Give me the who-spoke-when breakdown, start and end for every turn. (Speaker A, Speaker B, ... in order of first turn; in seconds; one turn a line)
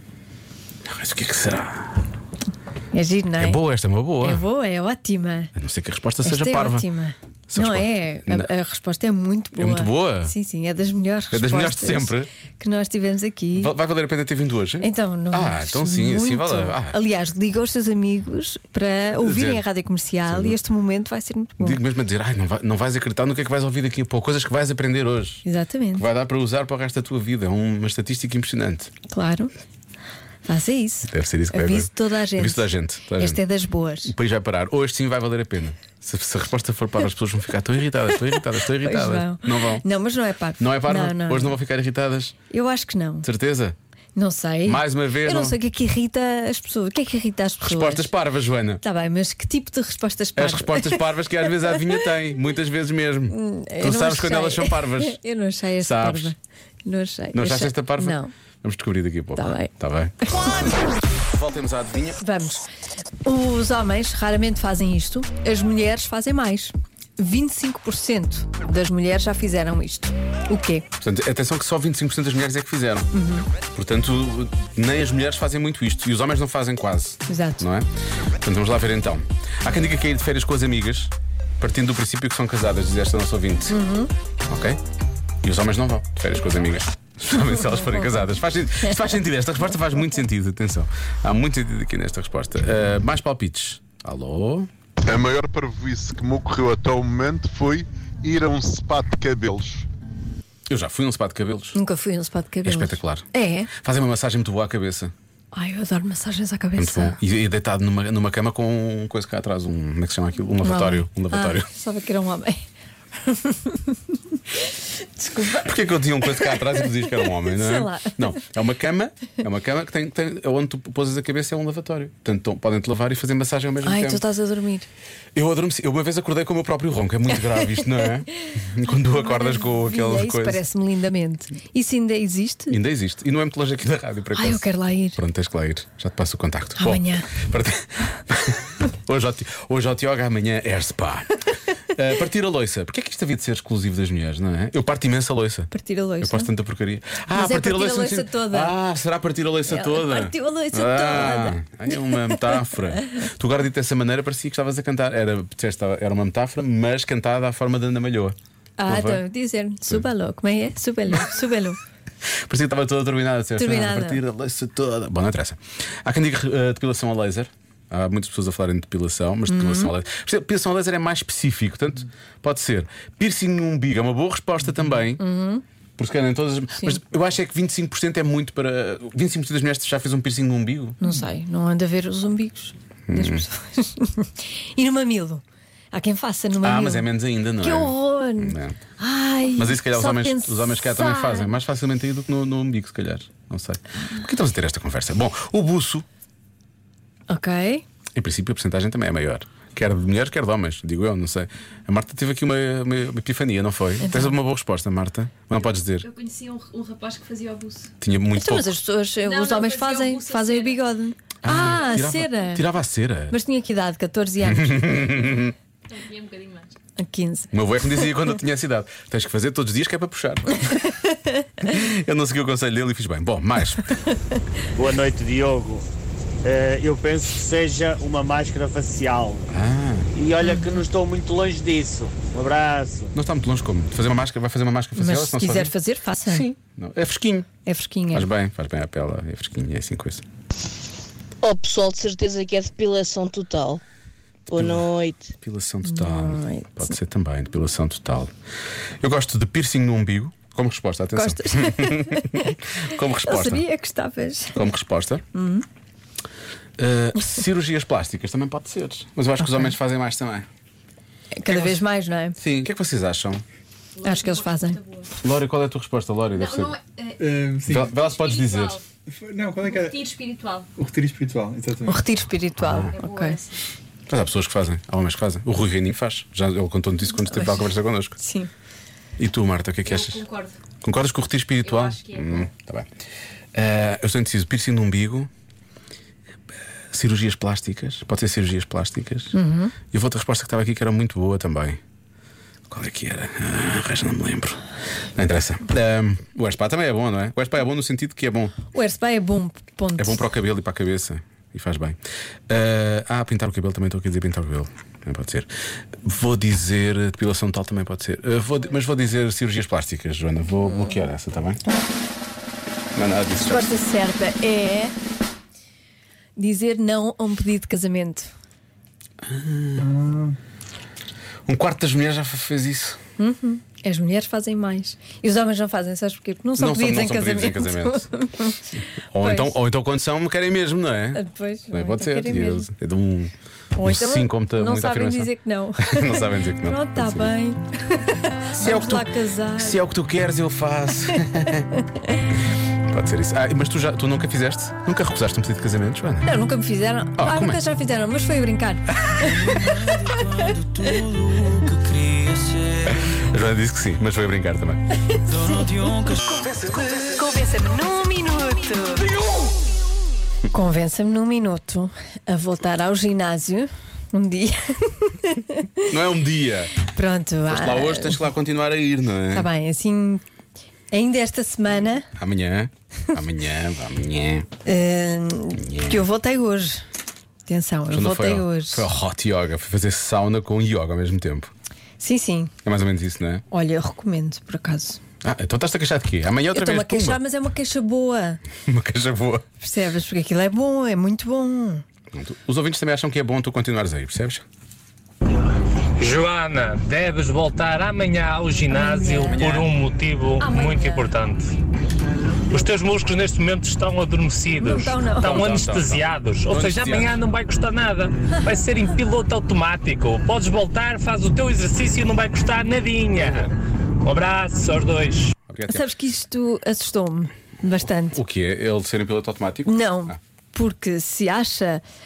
Speaker A: 0.9-2.0
Speaker B: 2.9-3.6
Speaker A: 3.4-4.4
Speaker B: 4.2-5.5
Speaker A: 5.6-6.8
Speaker B: 6.2-13.7
Speaker A: 7.5-8.5
Speaker A: 9.6-10.3
Speaker A: 11.3-12.3
Speaker A: 13.6-17.0
Speaker B: 14.8-21.8
Speaker A: 19.2-19.7
Speaker A: 20.2-20.6
Speaker A: 21.6-25.4
Speaker B: 25.4-26.1
Speaker A: 25.9-28.9
Speaker B: 29.1-29.5
Speaker B: 30.4-34.1
Speaker A: 31.1-33.4
Speaker A: 34.0-39.8
Speaker B: 38.8-41.6
Speaker A: 40.6-42.3
Speaker B: 42.5-43.3
Speaker A: 43.2-43.8
Speaker B: 44.1-48.1
Speaker A: 44.6-45.6
Speaker A: 47.6-48.8
Speaker B: 48.8-52.1
Speaker A: 50.4-55.2
Speaker B: 53.3-58.3
Speaker A: 55.8-56.3
Speaker A: 57.3-62.2
Speaker B: 59.4-59.7
Speaker B: 60.2-60.7
Speaker B: 62.2-62.6
Speaker B: 63.2-70.8
Speaker A: 71.0-73.1
Speaker B: 73.1-73.5
Speaker A: 73.7-77.9
Speaker B: 77.3-77.7
Speaker A: 78.4-83.8
Speaker B: 83.7-84.1
Speaker A: 84.5-84.8
Speaker A: 85.4-94.7
Speaker B: 87.3-89.0
Speaker C: 95.1-99.8
Speaker A: 100.7-101.8
Speaker B: 101.7-103.7
Speaker A: 102.7-103.2
Speaker A: 103.8-105.1
Speaker B: 105.5-107.2
Speaker A: 106.8-111.7
Speaker B: 110.6-112.6
Speaker B: 113.2-114.0
Speaker B: 114.7-115.7
Speaker A: 115.5-124.2
Speaker B: 116.2-118.2
Speaker B: 123.8-124.9
Speaker A: 125.3-130.6
Speaker B: 129.1-132.8
Speaker A: 132.7-141.3
Speaker B: 134.3-135.2
Speaker B: 136.8-137.3
Speaker A: 141.9-145.7
Speaker B: 145.7-146.5
Speaker A: 146.2-158.3
Speaker B: 147.3-148.8
Speaker B: 149.7-152.7
Speaker B: 158.8-161.8
Speaker A: 158.9-159.2
Speaker A: 162.5-175.2
Speaker B: 163.6-164.2
Speaker B: 169.5-169.9
Speaker B: 175.2-175.6
Speaker A: 176.0-181.0
Speaker B: 181.0-191.5
Speaker A: 183.1-183.4
Speaker A: 186.6-188.8
Speaker A: 189.6-196.1
Speaker B: 197.3-197.8
Speaker A: 198.2-206.1
Speaker B: 204.0-204.3
Speaker D: 206.0-207.9
Speaker A: 208.0-208.8
Speaker B: 208.3-212.7
Speaker D: 209.2-210.8
Speaker A: 211.4-213.4
Speaker B: 213.3-215.1
Speaker A: 214.4-215.6
Speaker D: 215.9-216.7
Speaker B: 217.0-217.5
Speaker A: 217.5-220.8
Speaker A: 221.6-223.9
Speaker E: 224.7-225.8
Speaker E: 226.4-229.4
Speaker A: 229.5-230.1
Speaker E: 230.2-233.1
Speaker B: 230.4-230.7
Speaker A: 233.2-235.7
Speaker B: 234.9-236.5
Speaker A: 236.2-237.5
Speaker B: 237.7-238.3
Speaker A: 238.1-240.2
Speaker F: 241.4-243.8
Speaker F: 244.5-245.3
Speaker A: 244.5-244.9
Speaker A: 245.4-248.3
Speaker B: 245.8-246.9
Speaker A: 249.0-253.7
Speaker B: 251.2-252.6
Speaker B: 253.2-254.6
Speaker A: 254.6-255.2
Speaker B: 255.3-255.7
Speaker A: 256.8-260.5
Speaker B: 259.4-259.7
Speaker B: 261.4-262.4
Speaker A: 261.5-261.8
Speaker A: 262.4-263.4
Speaker D: 264.0-265.1
Speaker B: 264.0-264.8
Speaker A: 265.2-266.8
Speaker D: 266.3-267.2
Speaker G: 267.2-267.8
Speaker A: 267.7-268.8
Speaker D: 268.1-268.7
Speaker G: 269.2-269.8
Speaker D: 269.6-270.7
Speaker G: 270.8-271.9
Speaker B: 271.9-273.4
Speaker A: 272.6-272.9
Speaker D: 272.9-273.6
Speaker A: 274.1-278.2
Speaker B: 277.3-278.5
Speaker A: 279.2-280.3
Speaker D: 279.9-280.5
Speaker A: 280.8-282.9
Speaker D: 281.6-282.4
Speaker A: 283.5-285.3
Speaker A: 286.9-289.3
Speaker B: 289.3-289.7
Speaker A: 289.9-291.8
Speaker A: 292.7-294.6
Speaker A: 295.2-298.6
Speaker B: 298.7-300.3
Speaker A: 300.0-302.0
Speaker A: 302.5-305.5
Speaker A: 306.0-311.6
Speaker A: 312.9-313.8
Speaker B: 313.4-314.9
Speaker B: 316.4-318.3
Speaker A: 319.3-319.9
Speaker A: 321.4-323.0
Speaker B: 323.2-329.6
Speaker A: 326.6-328.1
Speaker A: 329.1-337.3
Speaker B: 331.1-332.7
Speaker B: 333.7-339.8
Speaker A: 338.6-341.7
Speaker A: 342.9-346.3
Speaker B: 346.2-350.1
Speaker A: 347.2-347.6
Speaker A: 349.1-356.5
Speaker B: 355.3-359.1
Speaker B: 360.5-365.8
Speaker A: 365.8-366.8
Speaker B: 366.8-368.2
Speaker A: 367.5-369.5
Speaker B: 369.3-370.2
Speaker B: 370.9-372.1
Speaker A: 372.1-374.5
Speaker B: 374.6-376.8
Speaker A: 375.6-376.1
Speaker B: 377.4-378.9
Speaker A: 377.9-381.5
Speaker B: 382.0-382.5
Speaker A: 382.6-383.4
Speaker B: 383.5-385.0
Speaker A: 385.2-387.2
Speaker B: 386.5-388.4
Speaker A: 388.7-389.4
Speaker B: 389.6-391.8
Speaker A: 392.1-394.4
Speaker H: 396.0-401.5
Speaker B: 398.7-399.5
Speaker A: 399.3-399.7
Speaker B: 400.4-401.1
Speaker H: 402.5-413.5
Speaker B: 404.6-405.5
Speaker A: 405.2-407.2
Speaker H: 414.0-415.3
Speaker A: 415.5-415.9
Speaker B: 415.7-418.2
Speaker A: 417.9-420.2
Speaker B: 419.7-421.8